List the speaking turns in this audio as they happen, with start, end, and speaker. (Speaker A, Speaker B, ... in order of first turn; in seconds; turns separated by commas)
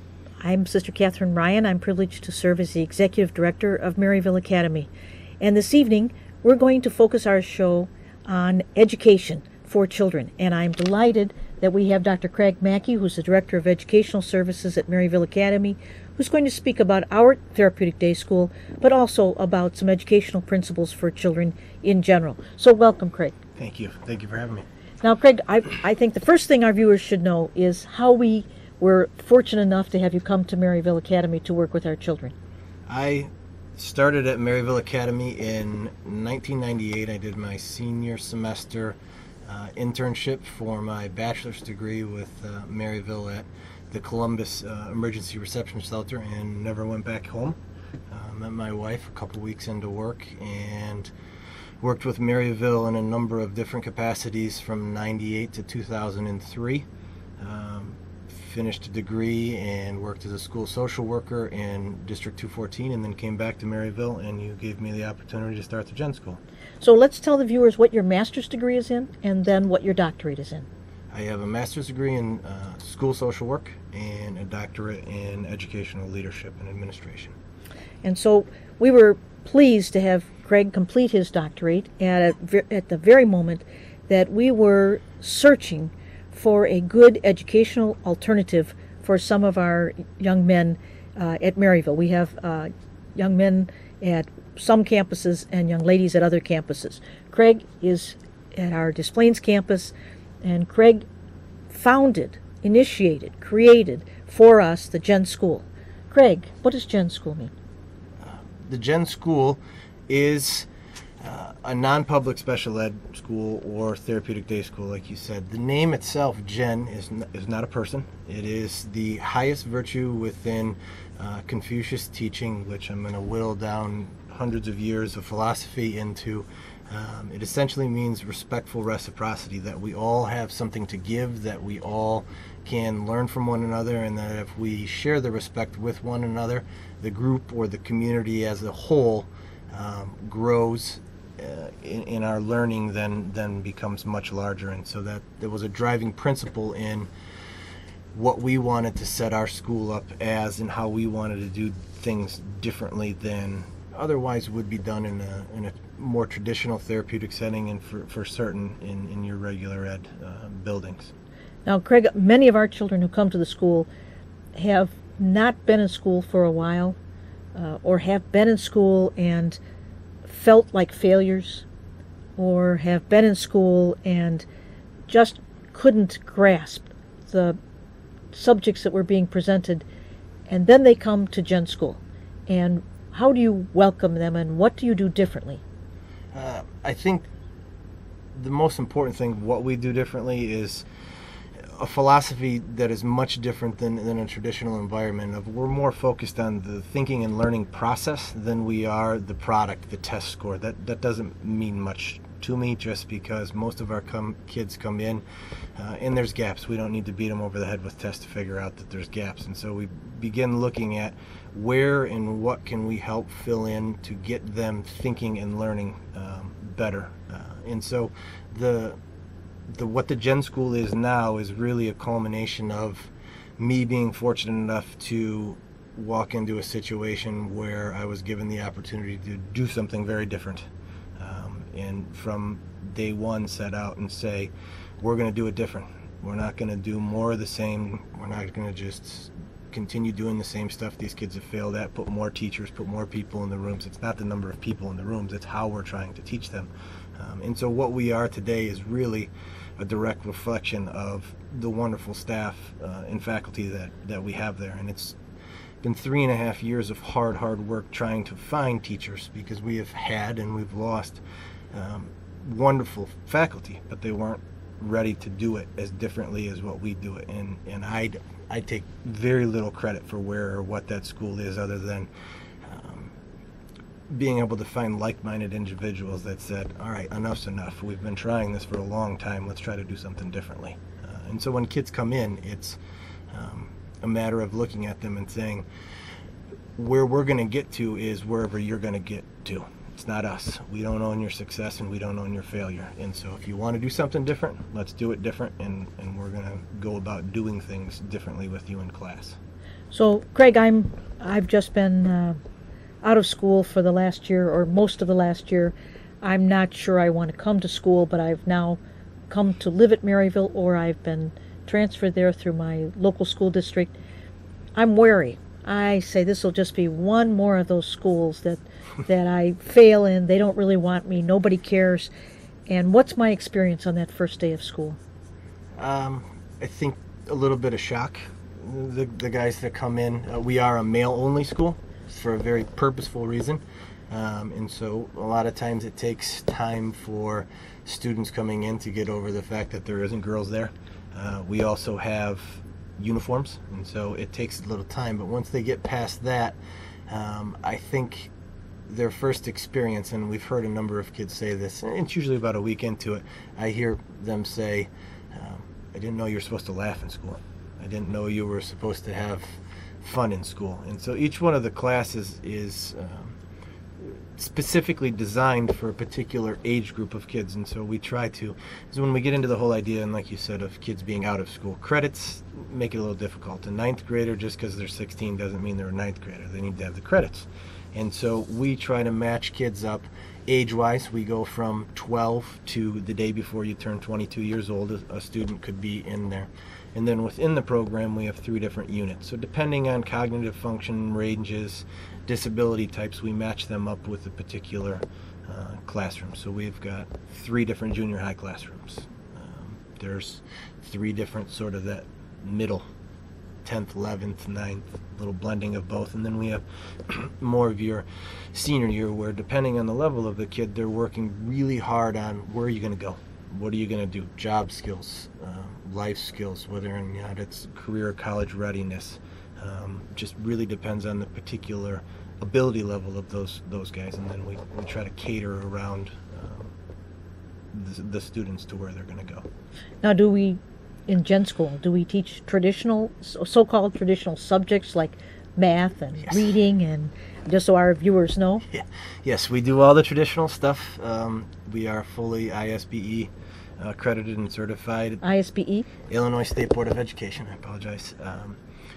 Speaker A: 0.4-4.9, Speaker A: 5.4-23.4, Speaker B: 23.6-24.7, Speaker A: 25.0-32.3, Speaker B: 32.9-51.1, Speaker B: 51.8-56.9, Speaker B: 57.4-66.4, Speaker A: 66.8-70.7, Speaker B: 71.1-77.4, Speaker A: 78.0-101.0, Speaker A: 101.7-107.5, Speaker B: 108.2-110.7, Speaker B: 111.2-147.1, Speaker B: 148.1-161.1, Speaker A: 161.7-163.9, Speaker A: 164.6-167.0, Speaker A: 167.6-169.6, Speaker A: 170.2-171.7, Speaker A: 172.4-174.5, Speaker A: 175.1-177.6, Speaker A: 178.3-179.8, Speaker A: 180.5-185.6, Speaker B: 186.3-187.3, Speaker B: 188.3-190.9, Speaker B: 191.6-205.2, Speaker B: 205.8-219.0, Speaker B: 219.7-255.2, Speaker B: 255.8-261.2, Speaker B: 261.7-272.1, Speaker B: 272.6-273.1, Speaker B: 274.1-285.7, Speaker B: 286.8-299.4, Speaker A: 299.9-302.4, Speaker A: 303.0-314.0, Speaker A: 314.8-322.1, Speaker A: 322.7-325.0, Speaker B: 325.8-346.6, Speaker B: 347.1-348.3, Speaker B: 348.9-363.4, Speaker B: 364.0-402.9, Speaker B: 403.6-426.7, Speaker B: 427.7-429.5, Speaker A: 430.0-438.6, Speaker B: 438.7-445.2, Speaker A: 445.2-445.9, Speaker B: 446.1-448.6